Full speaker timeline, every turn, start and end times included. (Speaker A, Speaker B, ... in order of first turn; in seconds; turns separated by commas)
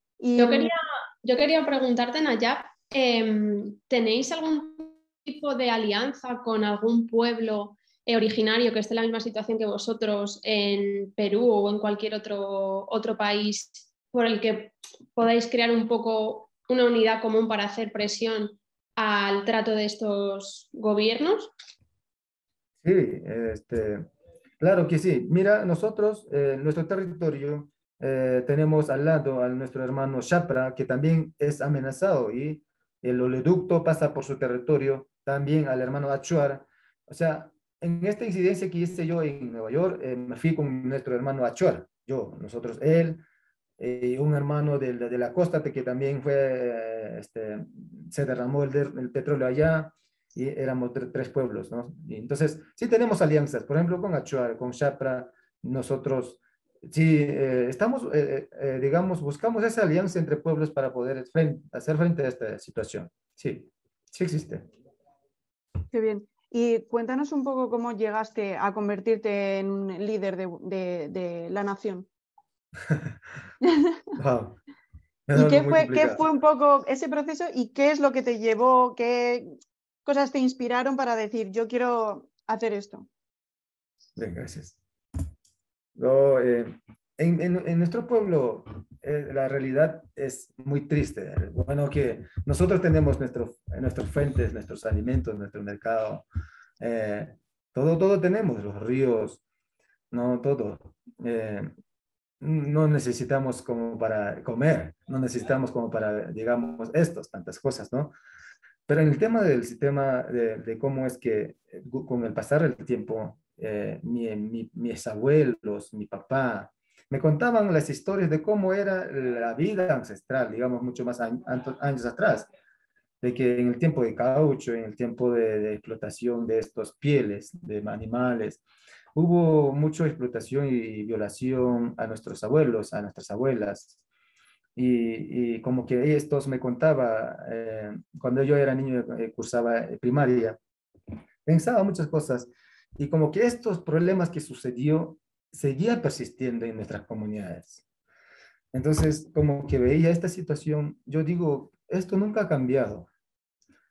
Speaker A: 0.2-0.7, Speaker B: 0.4-21.5, Speaker C: 22.8-24.1, Speaker C: 24.6-43.2, Speaker C: 43.8-64.7, Speaker A: 65.9-72.1, Speaker A: 73.6-74.0, Speaker C: 74.2-74.6, Speaker C: 75.3-76.2, Speaker A: 75.3-83.1, Speaker C: 84.2-84.8, Speaker C: 86.0-96.2, Speaker C: 96.8-99.4, Speaker C: 100.1-101.7, Speaker C: 102.4-108.2, Speaker C: 108.9-122.5, Speaker C: 123.2-128.6, Speaker C: 129.2-134.0, Speaker C: 134.8-140.6, Speaker C: 141.5-147.8, Speaker C: 148.7-153.1